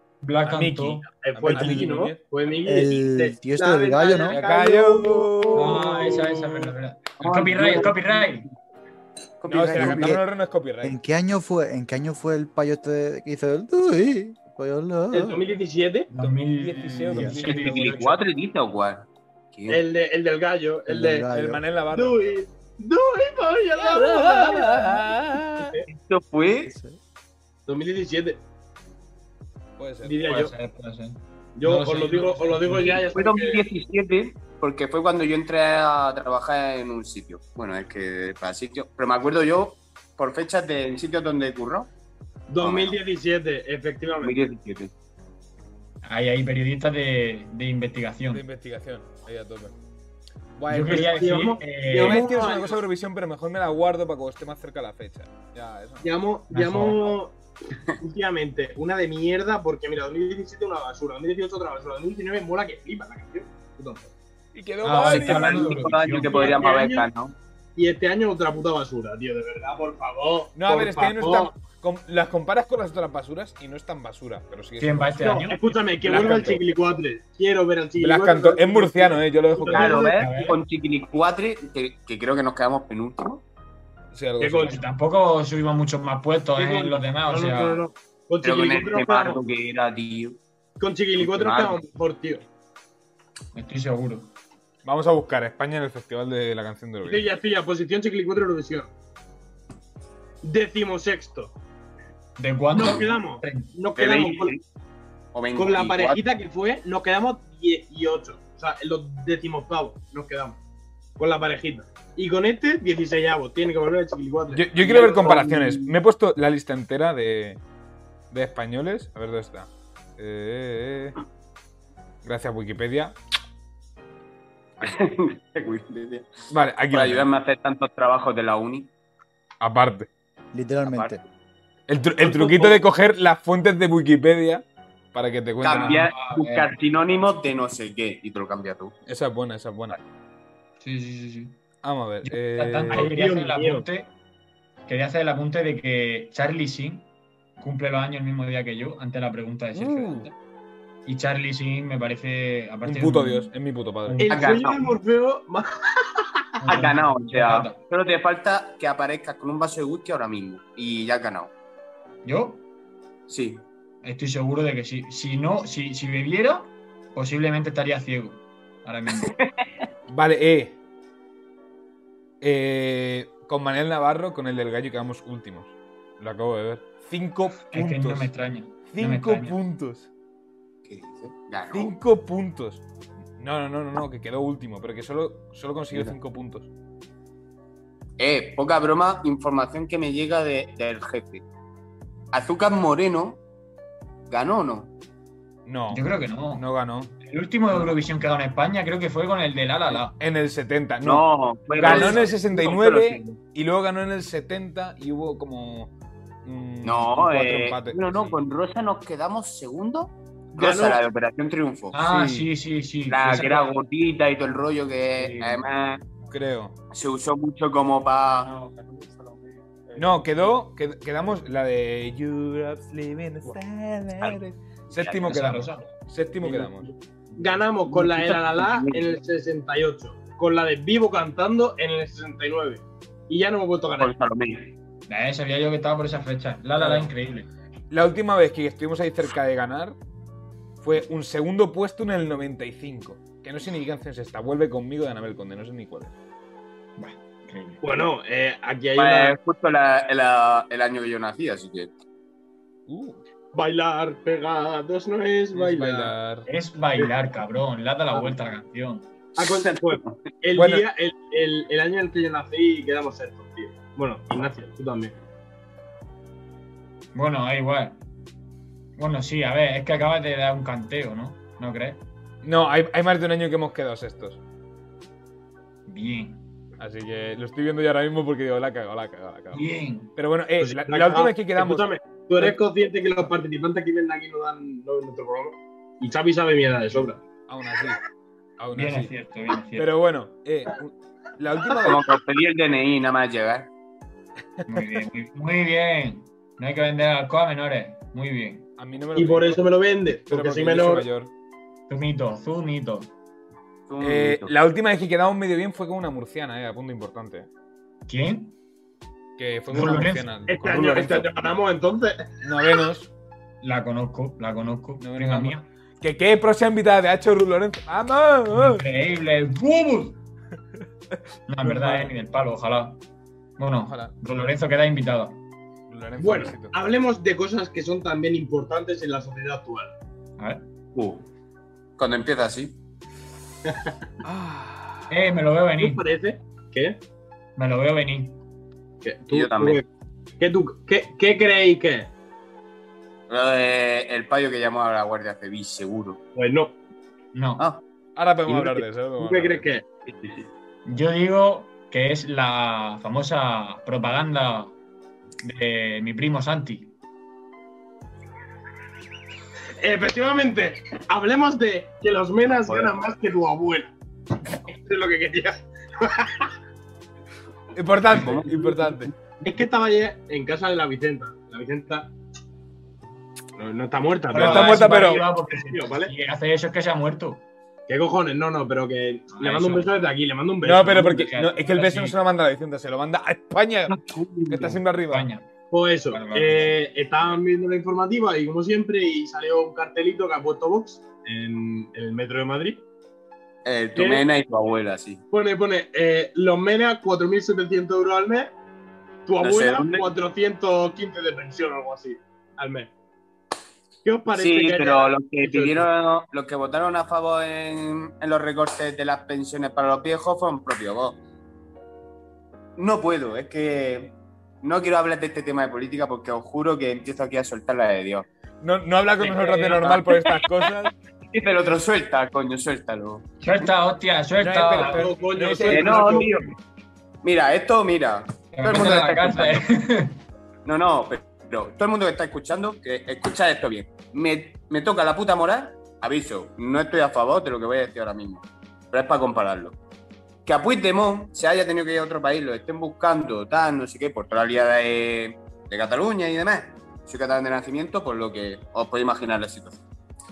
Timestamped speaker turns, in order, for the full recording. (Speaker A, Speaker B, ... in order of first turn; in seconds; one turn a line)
Speaker A: 0.2-1.1
Speaker B: 0.4-2.2
Speaker C: 1.1-5.8
Speaker D: 2.7-4.4
Speaker B: 4.3-6.7
Speaker A: 5.5-8.5
Speaker E: 7.2-8.4
Speaker E: 9.4-10.2
Speaker B: 9.5-11.0
Speaker D: 9.7-10.2
Speaker D: 10.8-15.5
Speaker C: 15.1-16.1
Speaker A: 16.1-18.2
Speaker B: 16.2-18.0
Speaker D: 17.1-17.4
Speaker E: 17.4-19.8
Speaker C: 19.7-21.3
Speaker D: 20.9-21.6
Speaker B: 21.3-22.2
Speaker C: 21.9-25.9
Speaker B: 23.8-25.8
Speaker E: 25.9-26.7
Speaker D: 26.6-27.0
Speaker C: 27.7-28.4
Speaker B: 29.8-30.2
Speaker C: 30.0-30.5
Speaker A: 30.2-33.1
Speaker C: 31.6-33.7
Speaker E: 33.1-41.9
Speaker C: 42.5-44.4
Speaker E: 42.6-43.0
Speaker E: 44.2-44.9
Speaker A: 46.0-48.4
Speaker B: 48.3-49.7
Speaker B: 50.6-51.2
Speaker A: 50.7-52.3
Speaker C: 50.9-52.8
Speaker B: 51.9-56.1
Speaker C: 56.0-57.4
Speaker A: 56.5-57.0
Speaker C: 58.0-64.1
Speaker B: 64.5-65.9
Speaker A: 64.8-66.5
Speaker E: 65.1-67.3
Speaker C: 66.2-67.1
Speaker C: 67.8-71.5
Speaker B: 70.5-75.3
Speaker A: 74.8-75.7
Speaker C: 75.2-80.2
Speaker B: 76.0-76.6
Speaker B: 78.0-80.0
Speaker E: 79.7-83.4
Speaker A: 80.0-80.6
Speaker B: 84.1-84.8
Speaker C: 84.4-84.8
Speaker A: 84.6-87.8
Speaker C: 86.5-89.4
Speaker E: 88.4-90.4
Speaker C: 90.8-92.4
Speaker E: 91.2-91.8
Speaker A: 93.5-94.3
Speaker B: 94.8-97.2
Speaker C: 97.0-98.9
Speaker C: 100.4-101.5
Speaker A: 102.4-103.7
Speaker C: 102.7-104.6
Speaker E: 104.0-104.6
Speaker E: 105.3-106.2
Speaker C: 105.5-110.6
Speaker C: 111.2-116.0
Speaker B: 114.5-117.6
Speaker B: 118.3-121.2
Speaker B: 122.2-123.2
Speaker E: 124.8-126.3
Speaker B: 126.5-127.3
Speaker E: 126.9-128.9
Speaker B: 129.6-130.1
Speaker D: 130.5-131.2
Speaker E: 130.8-131.2
Speaker B: 131.9-136.1
Speaker E: 132.2-132.8
Speaker E: 135.6-138.9
Speaker A: 135.7-136.7
Speaker B: 139.1-140.0
Speaker A: 140.8-141.6
Speaker B: 141.8-143.1
Speaker A: 142.2-144.1
Speaker C: 142.9-143.9
Speaker A: 144.9-147.1
Speaker A: 147.6-150.3
Speaker B: 149.7-150.3
Speaker A: 151.1-153.5
Speaker B: 152.8-154.3
Speaker A: 154.1-154.4
Speaker C: 154.2-156.7
Speaker E: 154.3-154.9
Speaker A: 156.6-157.8
Speaker E: 156.7-161.5
Speaker A: 162.2-162.6
Speaker E: 163.3-163.6
Speaker A: 164.0-169.3
Speaker E: 169.2-169.7
Speaker B: 170.1-170.8
Speaker B: 172.4-178.3
Speaker A: 177.7-179.6
Speaker B: 178.9-180.1
Speaker E: 180.8-181.9
Speaker B: 181.7-182.8
Speaker B: 183.4-186.7
Speaker E: 188.2-191.4
Speaker E: 192.3-193.4
Speaker E: 194.3-194.9
Speaker B: 195.7-197.1
Speaker A: 195.9-196.7
Speaker A: 197.2-200.2
Speaker B: 200.2-205.9
Speaker E: 201.0-203.4
Speaker B: 206.4-208.4
Speaker E: 206.8-212.0
Speaker C: 210.5-211.0
Speaker A: 211.9-213.8
Speaker B: 212.0-212.5
Speaker E: 213.1-216.0
Speaker A: 215.2-215.6
Speaker B: 216.3-216.8
Speaker E: 216.9-218.5
Speaker A: 218.4-220.3
Speaker B: 220.0-226.9
Speaker E: 224.9-225.2
Speaker A: 225.3-225.9
Speaker C: 227.4-234.1
Speaker E: 227.9-229.1
Speaker E: 234.0-234.7
Speaker A: 235.1-237.5
Speaker B: 236.8-237.1
Speaker B: 237.9-240.0
Speaker B: 240.8-246.2
Speaker A: 247.0-247.8
Speaker C: 247.8-249.4
Speaker E: 249.0-251.9
Speaker B: 252.9-253.2
Speaker C: 253.5-256.2
Speaker B: 255.5-256.5
Speaker A: 256.5-259.1
Speaker C: 259.4-265.1
Speaker E: 259.4-260.2
Speaker B: 260.5-260.9
Speaker A: 267.1-268.0
Speaker A: 269.0-272.0
Speaker B: 272.4-274.4
Speaker A: 275.9-276.4
Speaker B: 276.8-282.6
Speaker A: 279.5-280.1
Speaker C: 280.6-287.2
Speaker B: 287.5-288.0
Speaker B: 288.6-289.1
Speaker A: 288.8-289.9
Speaker B: 289.8-292.0
Speaker E: 291.8-293.7
Speaker B: 294.6-295.0
Speaker A: 294.7-298.7
Speaker B: 298.8-299.7
Speaker C: 299.1-301.1
Speaker B: 300.3-301.3
Speaker A: 301.9-303.1
Speaker E: 303.9-304.5
Speaker B: 304.0-307.5
Speaker A: 308.1-308.5
Speaker B: 309.4-311.5
Speaker A: 309.7-310.3
Speaker C: 309.8-312.8
Speaker B: 312.4-313.1
Speaker A: 313.6-315.7
Speaker B: 315.0-318.8
Speaker A: 318.5-320.2
Speaker A: 321.5-323.0
Speaker C: 321.7-322.0
Speaker A: 323.6-325.4
Speaker B: 323.8-324.2
Speaker B: 325.9-326.8
Speaker C: 326.2-329.9
Speaker A: 330.4-330.6
Speaker E: 330.9-331.3
Speaker E: 332.0-332.8
Speaker C: 333.7-333.9
Speaker B: 334.2-335.1
Speaker A: 335.1-336.0
Speaker C: 335.8-337.0
Speaker A: 337.6-338.4
Speaker C: 339.0-339.9
Speaker E: 339.3-339.8
Speaker C: 340.4-342.1
Speaker E: 343.3-346.2
Speaker C: 346.4-346.8
Speaker A: 347.3-347.7
Speaker B: 348.2-349.7
Speaker C: 348.5-349.9
Speaker E: 350.1-350.5
Speaker A: 350.9-354.8
Speaker A: 355.4-356.9
Speaker C: 359.8-363.9
Speaker E: 362.7-362.9
Speaker C: 364.5-366.5
Speaker B: 367.8-369.1
Speaker E: 368.1-369.1
Speaker C: 369.4-372.1
Speaker C: 373.6-376.1
Speaker B: 374.3-375.2
Speaker A: 374.3-377.4
Speaker C: 377.9-381.3
Speaker A: 379.4-379.9
Speaker B: 380.6-385.3
Speaker A: 381.3-382.2
Speaker E: 383.9-384.8
Speaker A: 385.1-385.5
Speaker C: 385.7-392.8
Speaker A: 386.1-386.8
Speaker E: 393.6-395.2
Speaker C: 393.9-394.3
Speaker C: 395.3-398.5
Speaker C: 399.2-402.9
Speaker E: 399.4-400.1
Speaker C: 404.0-405.9
Speaker E: 404.3-411.2
Speaker E: 412.8-418.3
Speaker B: 418.6-420.9
Speaker E: 419.8-420.3
Speaker E: 421.3-423.3
Speaker A: 423.4-425.1
Speaker B: 424.4-426.3
Speaker C: 424.6-426.4
Speaker E: 425.7-426.6
Speaker E: 427.2-429.6
Speaker A: 428.5-430.2
Speaker E: 430.6-439.8
Speaker E: 440.5-449.8